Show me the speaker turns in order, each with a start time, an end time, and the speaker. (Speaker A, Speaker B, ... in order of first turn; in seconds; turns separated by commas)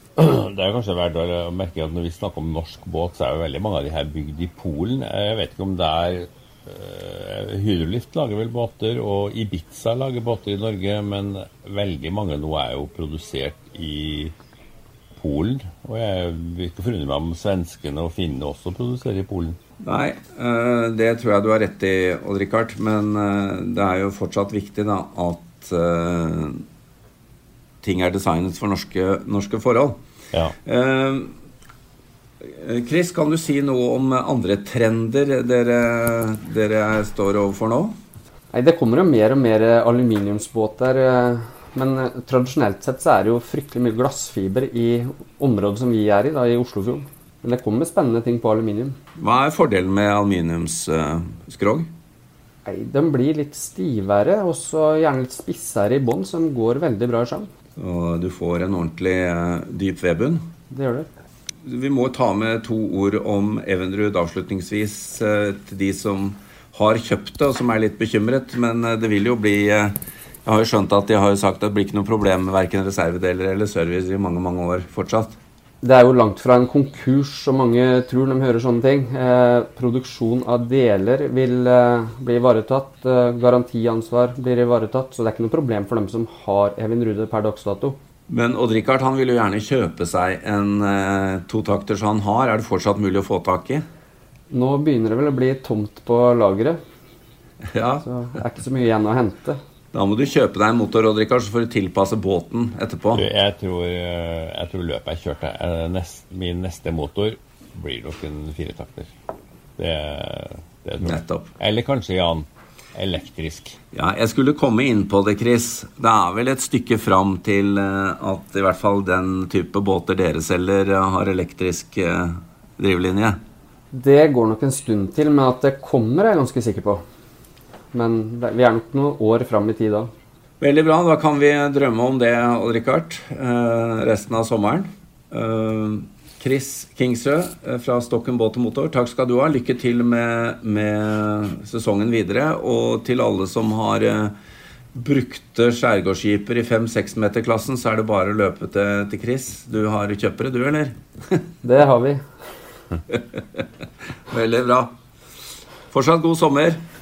Speaker A: 0.2-14.3, Speaker A: 15.2-19.6, Speaker B: 19.8-26.6, Speaker B: 27.8-30.0, Speaker B: 30.6-31.3, Speaker B: 32.4-37.9, Speaker C: 38.5-49.0, Speaker B: 49.2-51.9, Speaker C: 52.6-57.5, Speaker B: 57.8-60.4, Speaker C: 60.7-61.1, Speaker B: 61.6-75.4, Speaker C: 75.8-88.0, Speaker B: 88.3-93.8, Speaker C: 94.5-96.8, Speaker B: 97.7-98.0, Speaker C: 98.0-99.6, Speaker B: 99.9-103.3, Speaker A: 103.1-109.1, Speaker A: 109.8-113.8, Speaker B: 111.0-111.5, Speaker B: 113.9-123.3, Speaker C: 123.9-127.0, Speaker C: 127.9-130.1, Speaker B: 130.6-144.3, Speaker B: 144.9-151.4, Speaker C: 151.6-152.2, Speaker B: 153.1-153.6, Speaker B: 154.3-154.9, Speaker B: 155.9-156.8